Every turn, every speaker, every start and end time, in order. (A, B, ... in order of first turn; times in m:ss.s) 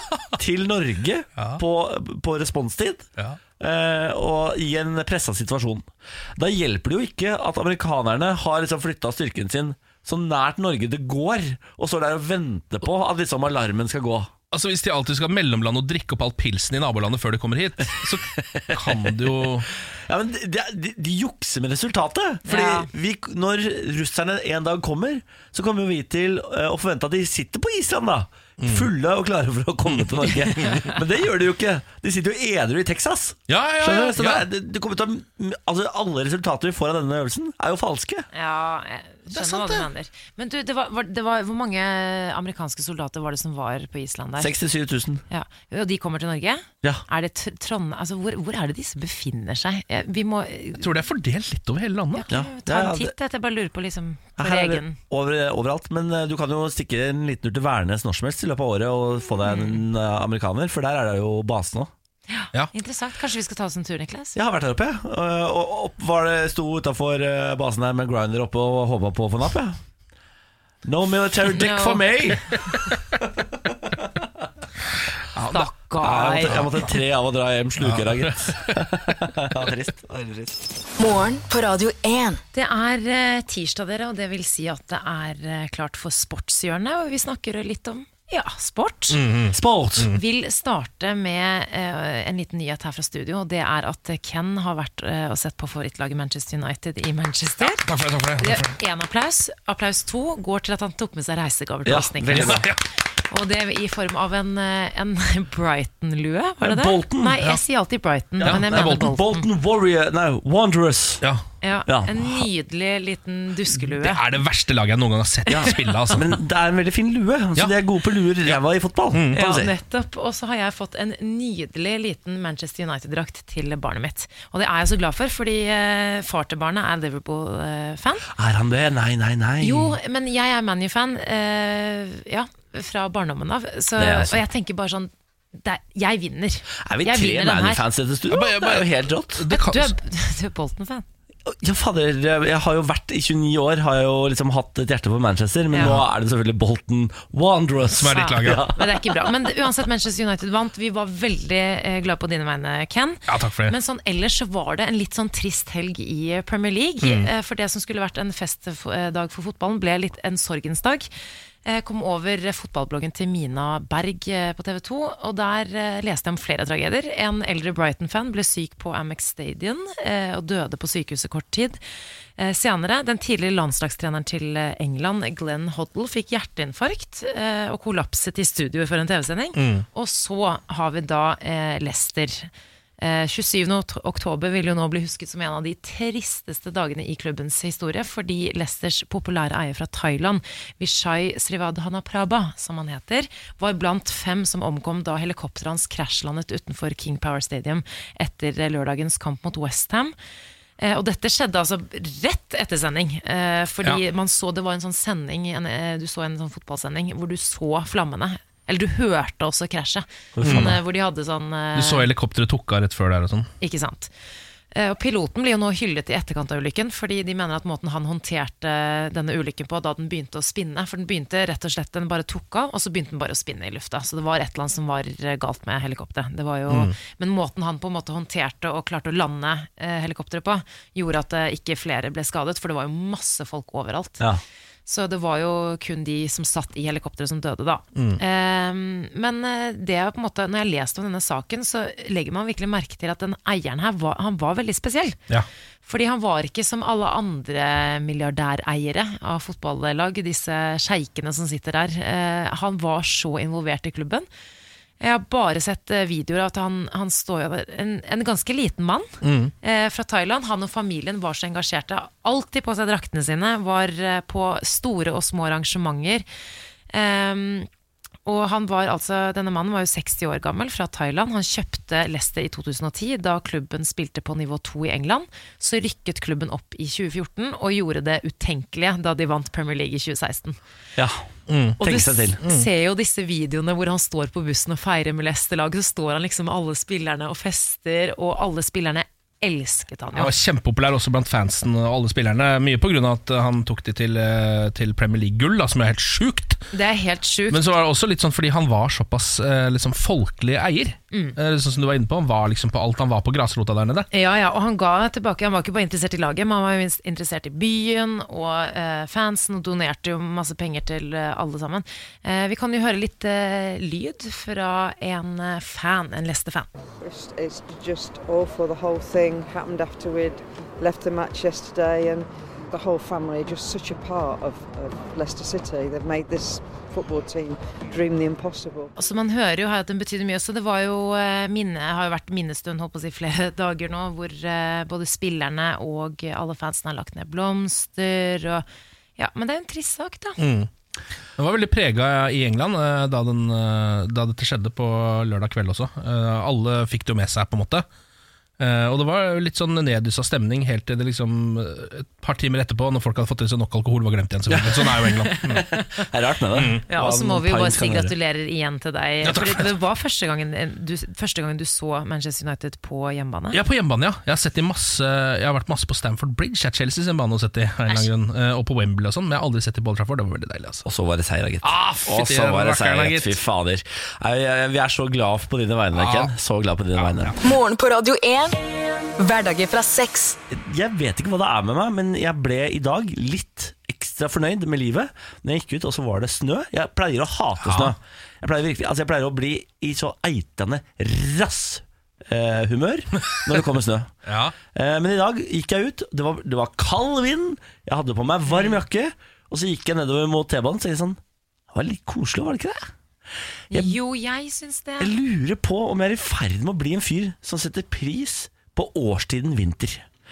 0:00.4-0:03.1 A
0:01.4-0:01.6 B
0:03.6-0:14.3 A
0:14.5-0:19.7 B
0:18.6-0:19.1 A
0:20.1-0:38.3 A
0:22.5-0:22.9 C
0:28.6-0:28.9 B
0:29.9-0:30.7 B
0:30.6-0:30.9 C
0:33.5-0:34.4 B
0:38.3-0:44.5 C
0:39.3-0:39.9 B
0:44.4-0:45.2 A
0:45.3-0:50.9 C
0:50.8-0:52.3 B
0:52.1-0:55.0 C
0:52.3-0:53.1 A
0:54.4-1:01.9 A
0:59.4-0:59.8 C
1:02.3-1:04.4 C
1:04.4-1:09.8 A
1:10.8-1:12.4 A
1:11.5-1:12.5 C
1:15.4-1:16.7 C
1:16.0-1:20.7 A
1:17.8-1:18.8 B
1:21.0-1:22.4 D
1:22.5-1:29.2 C
1:29.1-1:30.2 B
1:29.5-1:30.1 A
1:30.1-1:37.8 C
1:37.6-1:38.7 B
1:38.4-1:42.7 C
1:41.8-1:42.7 A
1:42.2-1:42.8 B
1:43.3-1:49.4 C
1:46.6-1:47.5 A
1:48.4-1:51.2 A
1:48.4-1:49.1 B
1:51.6-1:54.2 C
1:51.9-1:52.4 A
1:53.9-1:56.4 B
1:55.5-1:59.7 A
1:59.1-1:59.4 B
1:59.3-2:08.3 C
2:08.3-2:10.0 A
2:09.6-2:17.8 C
2:14.0-2:14.4 A
2:16.8-2:19.5 A
2:18.3-2:19.9 B
2:19.5-2:21.1 C
2:21.5-2:28.9 A
2:27.9-2:28.7 B
2:28.1-2:41.1 C
2:33.3-2:33.8 B
2:37.0-2:37.3 B
2:41.6-2:51.8 C
2:52.4-3:20.1 C
2:59.6-2:59.9 B
3:20.8-3:32.1 C
3:30.4-3:30.8 A
3:30.4-3:30.8 B
3:31.8-3:33.5 B
3:33.6-3:34.1 C
3:34.7-3:54.2 C
3:46.7-3:46.9 B
3:54.9-4:05.2 C
3:57.9-3:58.2 B
4:05.8-4:14.3 C
4:15.0-4:26.2 C
4:19.2-4:19.5 B
4:26.9-4:27.7 C
4:28.3-4:40.6 C
4:41.0-4:41.3 A
4:41.5-4:41.8 B
4:41.8-4:42.4 A
4:41.8-4:50.3 C
4:42.4-4:42.7 B
4:50.1-4:56.6 B
4:56.7-4:57.6 C
4:57.5-5:04.1 B
5:04.1-5:16.7 C
5:17.0-5:28.9 E
5:29.0-5:38.6 C
5:39.2-5:40.4 C
5:40.4-5:40.7 B
5:41.4-5:47.8 B
5:48.6-5:55.6 B
5:54.5-5:58.1 A
5:55.3-5:55.8 C
5:56.5-5:56.8 B
5:56.9-6:03.6 C
5:59.2-5:59.7 B
6:03.5-6:10.8 B
6:10.8-6:17.3 A
6:11.6-6:13.4 B
6:15.9-6:16.3 B
6:16.9-6:17.4 B
6:17.4-6:18.6 D
6:19.2-6:20.4 D
6:20.5-6:34.1 A
6:27.6-6:27.9 B
6:34.3-6:34.5 B
6:34.7-6:41.2 A
6:38.5-6:38.8 C
6:41.7-6:42.9 A
6:43.7-6:44.0 A
6:43.7-6:45.1 C
6:45.0-6:50.1 A